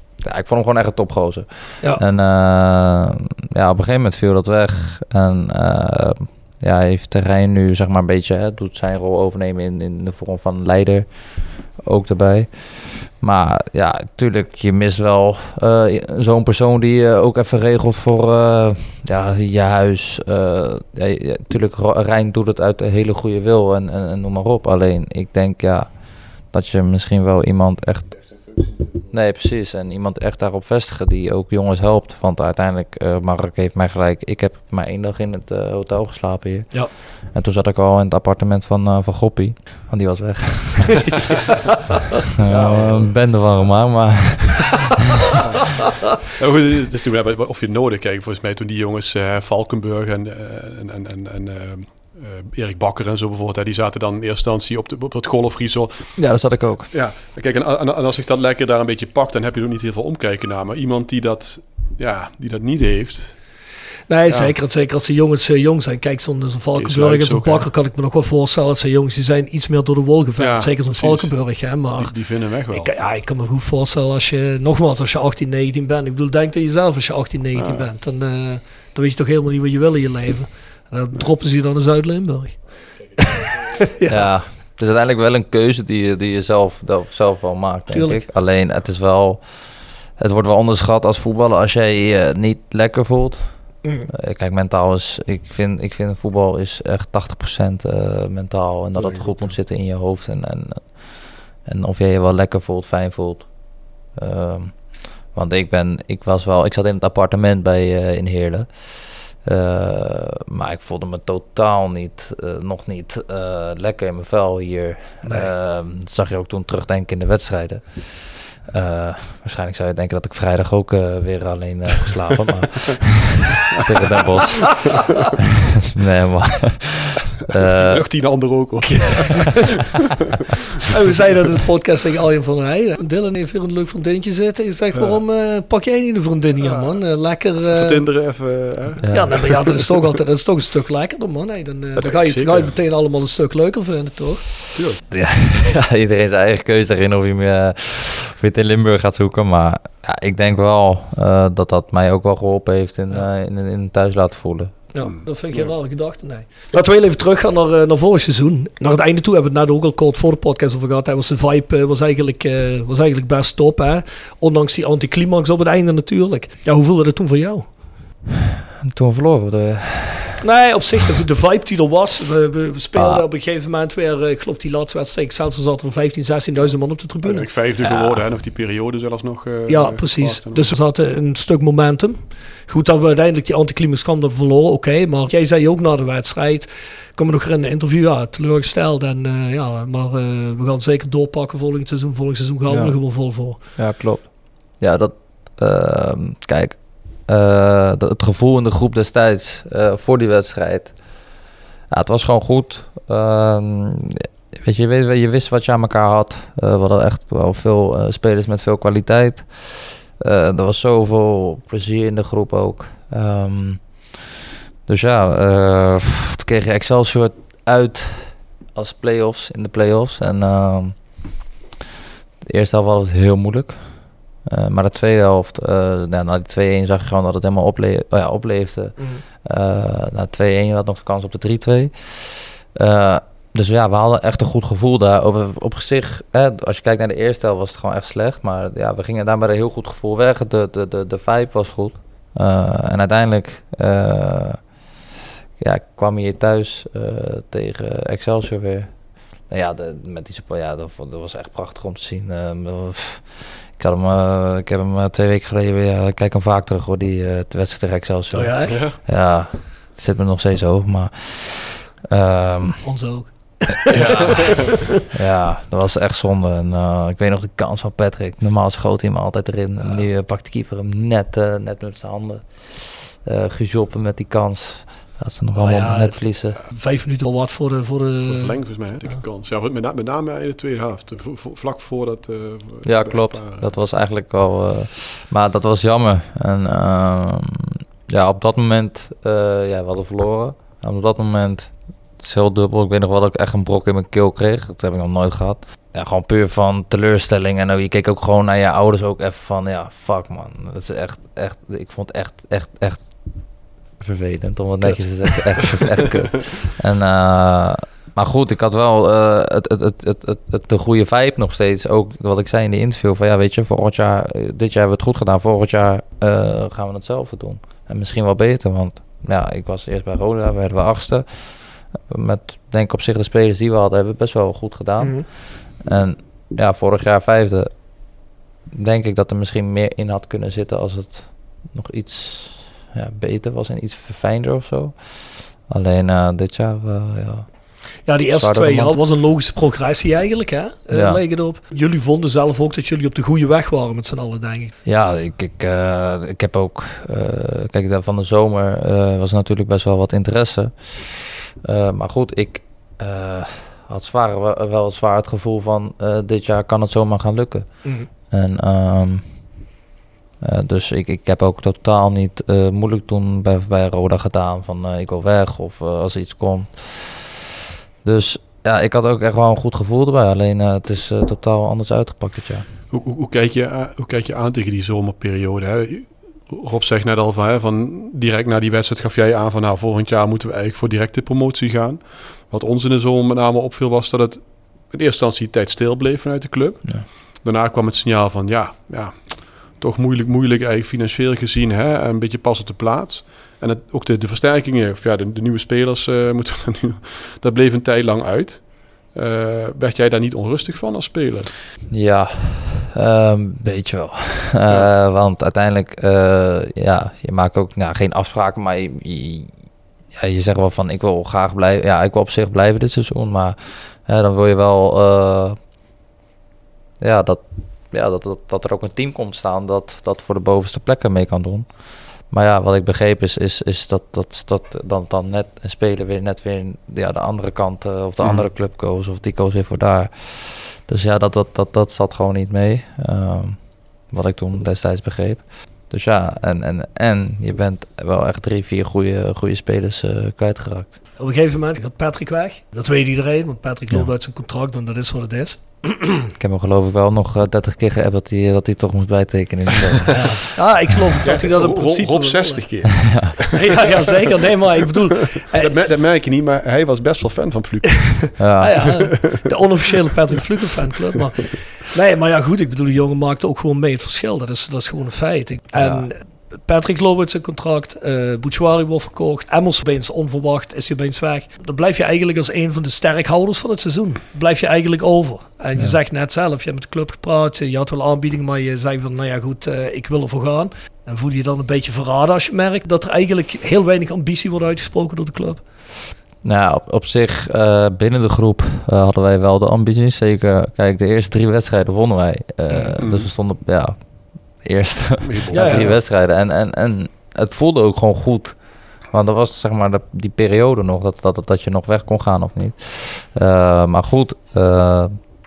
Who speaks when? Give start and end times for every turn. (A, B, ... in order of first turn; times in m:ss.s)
0:00.2-0:28.5 A
0:28.2-0:28.9 B
0:29.1-0:41.2 A
0:42.4-0:45.5 A
0:42.5-0:43.3 B
0:46.4-0:56.3 B
0:56.2-0:56.9 A
0:56.9-1:03.4 B
1:04.1-1:22.7 C
1:04.3-1:04.5 B
1:06.8-1:07.7 B
1:10.4-1:12.9 B
1:17.6-1:17.9 B
1:23.2-1:24.3 C
1:24.1-2:05.2 A
1:27.9-1:28.2 C
1:33.8-1:34.1 C
1:39.0-1:39.6 B
1:55.2-1:55.5 C
2:05.9-2:08.6 A
2:07.5-2:09.9 B
2:09.2-2:09.6 C
2:10.9-2:18.0 C
2:14.9-2:15.2 B
2:16.6-2:17.0 B
2:17.7-2:19.8 B
2:19.0-2:19.6 A
2:19.1-2:24.6 C
2:22.0-2:22.8 B
2:24.7-2:25.0 B
2:25.1-2:34.8 A
2:34.9-2:47.7 C
2:35.0-2:35.7 B
2:48.8-2:50.4 A
2:50.4-2:57.5 C
2:53.0-2:53.2 A
2:57.2-3:00.7 B
2:57.8-2:58.2 A
2:59.7-3:13.6 C
3:12.7-3:34.2 A
3:34.9-3:41.4 A
3:42.4-4:04.6 A
3:49.0-3:49.2 C
4:05.6-4:22.8 A
4:18.3-4:18.8 C
4:18.7-4:19.0 B
4:22.8-4:24.8 C
4:23.9-4:24.5 A
4:23.9-4:24.8 B
4:25.1-4:36.6 A
4:29.8-4:30.0 C
4:35.5-4:38.6 C
4:38.2-4:43.7 B
4:42.8-5:39.0 A
5:25.0-5:25.3 C
5:38.1-5:44.7 C
5:40.9-5:41.2 A
5:44.8-5:59.3 A
5:57.8-5:58.1 C
6:00.4-6:07.4 A
6:08.0-6:12.7 A
6:12.9-6:41.5 B
6:41.9-6:49.6 A
6:50.1-6:55.6 A
6:57.0-7:20.9 A
7:08.2-7:08.5 B
7:21.2-7:26.2 C
7:26.4-7:30.3 A
7:30.1-7:33.0 C
7:31.2-7:33.8 B
7:33.5-7:35.8 C
7:35.4-7:38.4 B
7:38.4-7:39.1 A
7:38.6-8:05.6 C
7:39.1-7:39.5 B
7:45.7-7:46.1 A
8:06.4-8:25.2 A
8:12.8-8:13.3 B
8:15.2-8:16.0 B
8:15.5-8:15.9 C